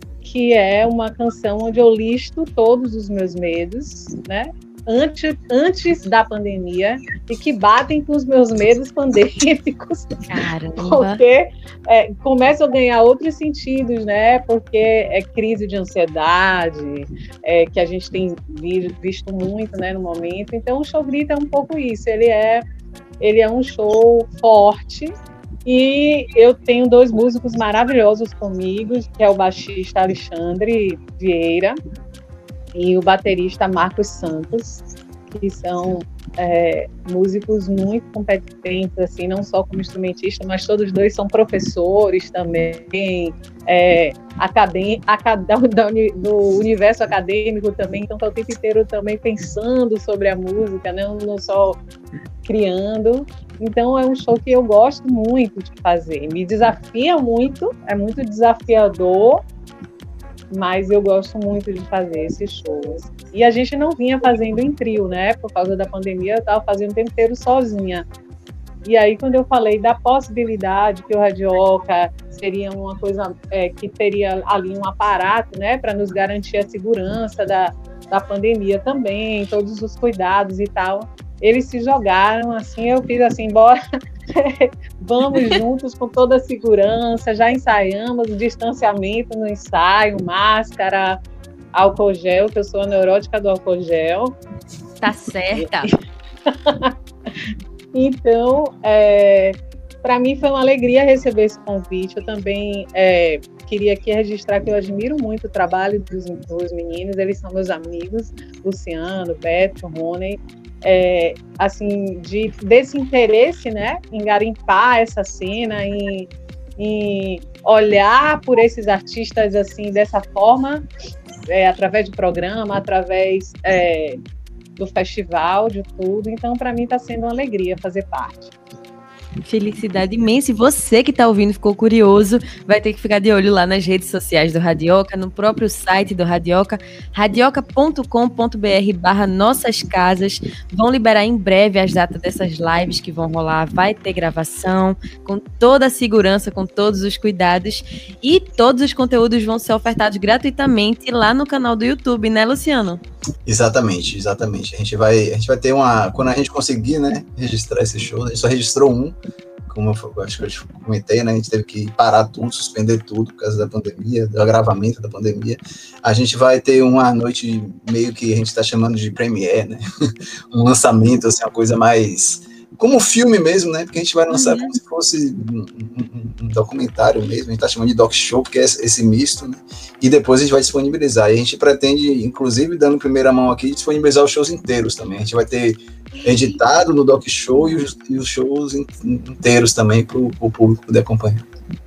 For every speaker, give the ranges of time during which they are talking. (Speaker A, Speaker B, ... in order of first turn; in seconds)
Speaker A: 0.2-22.7, 23.2-25.1, 25.7-31.8, 32.7-51.8, 52.5-59.4, 60.5-68.0, 68.8-83.8, 84.3-91.2, 91.7-94.4, 95.6-95.9, 96.5-96.9, 97.9-120.8, 121.5-124.2, 124.8-128.5
Speaker B: 10.3-11.2, 95.0-95.9, 129.4-153.0, 174.3-174.8
Speaker C: 153.5-159.2, 159.7-169.8, 170.5-191.5